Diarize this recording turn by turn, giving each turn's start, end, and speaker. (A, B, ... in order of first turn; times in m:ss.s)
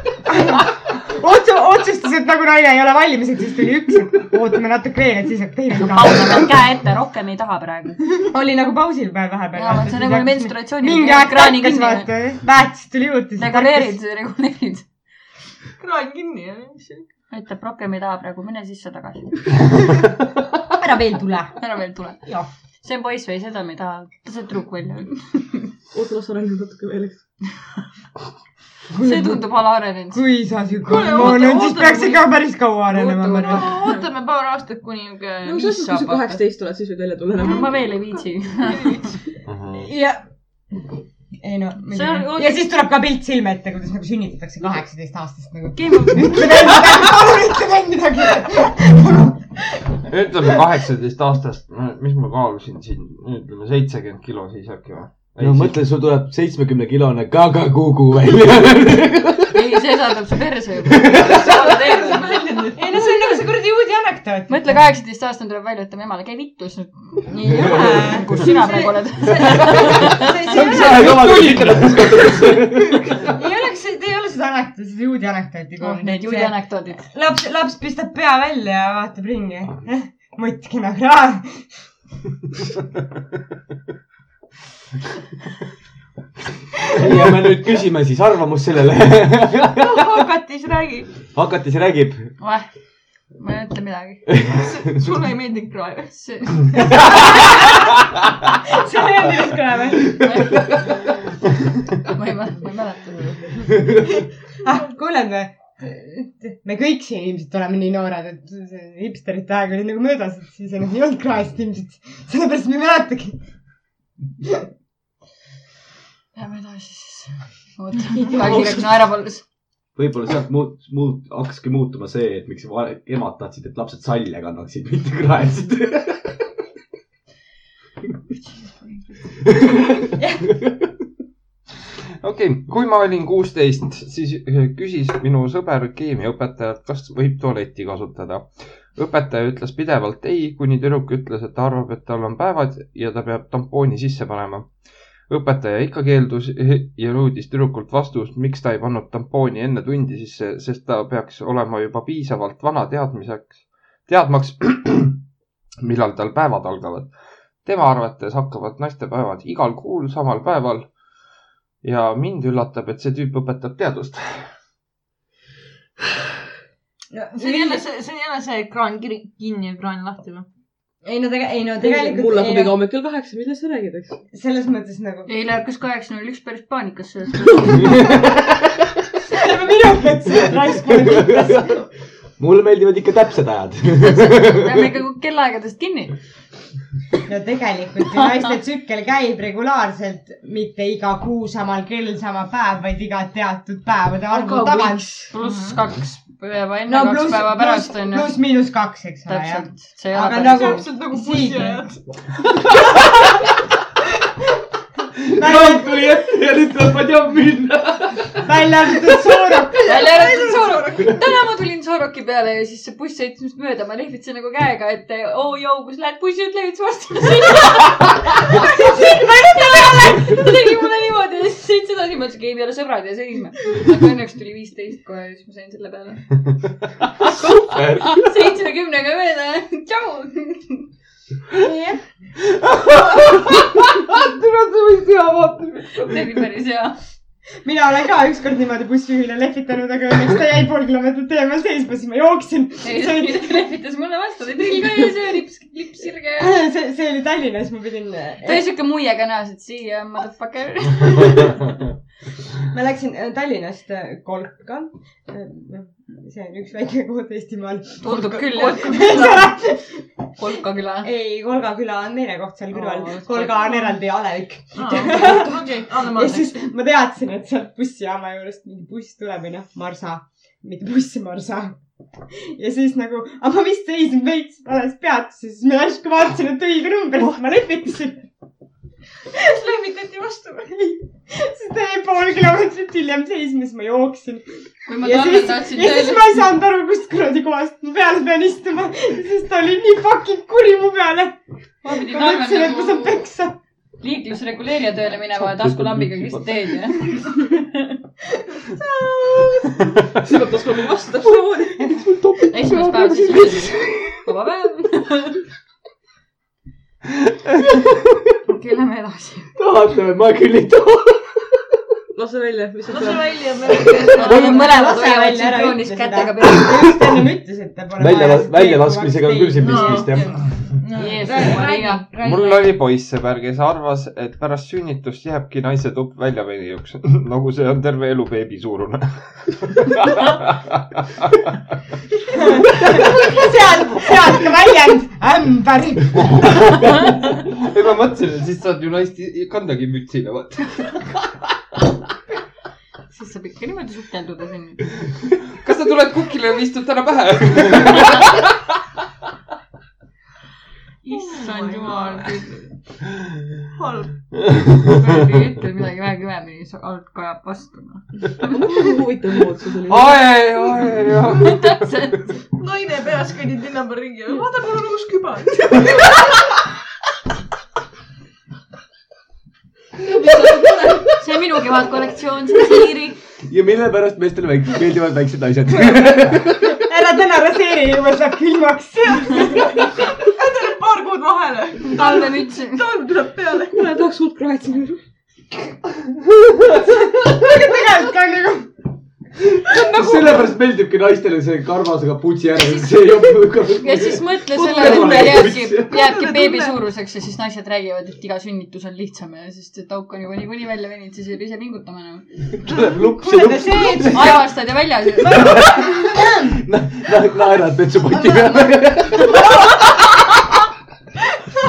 0:00.3-0:06.6 A
0:05.7-0:08.2 B
0:08.2-0:13.9 A
0:09.5-0:12.1 B
0:13.4-0:14.8 B
0:15.8-0:17.0 C
0:17.3-0:19.4 B
0:20.7-0:21.5 A
0:21.6-0:22.2 B
0:22.8-0:25.7 B
0:25.9-0:27.2 D
0:28.9-0:29.5 A
0:29.0-0:30.2 B
0:30.1-0:33.7 A
0:30.8-0:32.3 C
0:32.9-0:33.9 B
0:33.4-0:36.4 C
0:35.4-0:37.8 D
0:37.4-0:39.1 B
0:38.7-0:39.0 C
0:39.4-0:39.9 E
0:39.8-0:40.2 A
0:41.4-0:49.8 A
0:41.9-0:42.6 B
0:45.7-0:46.9 B
0:50.1-0:55.8 E
0:55.4-0:59.6 F
0:59.5-1:02.6 B
1:00.9-1:01.4 F
1:01.4-1:03.0 C
1:02.7-1:04.8 A
1:04.5-1:10.4 B
1:07.5-1:11.2 A
1:07.6-1:08.0 F
1:10.5-1:13.2 F
1:10.5-1:13.1 E
1:13.3-1:16.6 A
1:15.8-1:17.1 B
1:17.1-1:21.7 A
1:26.9-1:30.2 F
1:29.8-1:31.1 C
1:31.3-1:32.3 F
1:32.4-1:32.7 B
1:33.3-1:34.2 B
1:34.3-1:35.0 F
1:34.5-1:36.1 C
1:36.1-1:37.2 B
1:36.9-1:37.2 F
1:38.6-1:40.7 A
1:40.2-1:41.0 B
1:42.0-1:43.7 B
1:44.6-1:53.4 A
1:56.3-1:59.4 B
1:59.9-2:06.4 F
2:08.4-2:09.2 B
2:10.2-2:10.4 A
2:12.2-2:24.7 E
2:25.3-2:35.2 E
2:35.8-2:37.1 E
2:37.6-2:40.9 E
2:41.8-2:44.5 E
2:47.1-2:47.8 A
2:47.3-2:50.4 C
2:51.0-2:52.7 A
2:51.8-2:54.2 D
2:54.3-2:55.3 A
2:55.3-2:57.8 B
2:59.3-3:01.8 A
3:00.3-3:01.8 F
3:02.4-3:04.9 F
3:03.9-3:06.1 B
3:07.3-3:15.2 A
3:14.3-3:18.4 B
3:14.5-3:15.8 C
3:16.9-3:22.0 A
3:19.2-3:20.9 B
3:20.5-3:22.0 C
3:25.2-3:28.5 F
3:25.3-3:26.1 A
3:28.4-3:30.0 A
3:29.8-3:46.4 B
3:29.9-3:31.2 C
3:47.4-3:48.3 F
3:48.0-3:50.9 B
3:51.5-3:52.0 A
3:55.9-3:57.0 B
3:57.6-4:03.6 A
4:02.8-4:06.6 B
4:06.4-4:08.7 A
4:08.4-4:11.7 B
4:12.7-4:20.0 A
4:18.0-4:19.6 B
4:18.1-4:19.4 C
4:20.4-4:21.1 B
4:21.0-4:31.8 A
4:22.7-4:24.0 B
4:24.8-4:26.6 C
4:32.3-4:38.2 A
4:39.3-4:41.0 C
4:41.2-4:44.4 A
4:44.8-4:46.5 B
4:45.0-4:51.4 A
4:51.8-4:53.2 B
4:51.9-4:53.6 A
4:54.0-4:58.0 B
4:55.3-4:56.6 F
4:59.3-4:59.8 C
5:00.1-5:02.1 D
5:02.0-5:02.4 F
5:02.4-5:05.4 B
5:02.6-5:03.2 D
5:08.4-5:09.5 B
5:09.6-5:11.2 F
5:12.1-5:13.5 D
5:12.9-5:14.5 C
5:13.7-5:16.8 B
5:14.1-5:20.2 A
5:18.0-5:20.4 F
5:19.6-5:22.7 C
5:20.9-5:22.1 B
5:22.2-5:31.5 E
5:32.3-5:36.7 A
5:36.4-5:41.3 E
5:43.1-5:45.0 B
5:45.5-5:48.5 E
5:51.0-5:52.7 B
5:51.1-5:52.4 C
5:53.8-5:54.2 C
5:54.8-5:58.6 B
5:58.5-6:00.2 D
5:59.9-6:01.8 E
6:01.4-6:02.4 B
6:02.5-6:06.4 C
6:10.0-6:11.2 C
6:11.0-6:13.2 B
6:13.4-6:16.7 F
6:16.7-6:19.9 A
6:19.8-6:23.6 C
6:21.8-6:22.8 B
6:22.9-6:25.0 D
6:26.7-6:28.7 A
6:29.7-6:36.0 F
6:29.7-6:30.3 C
6:33.7-6:42.2 B
6:34.6-6:35.6 D
6:36.1-6:36.7 C
6:42.6-6:44.5 F
6:43.2-6:44.4 A
6:44.0-6:45.9 B
6:45.2-6:49.6 F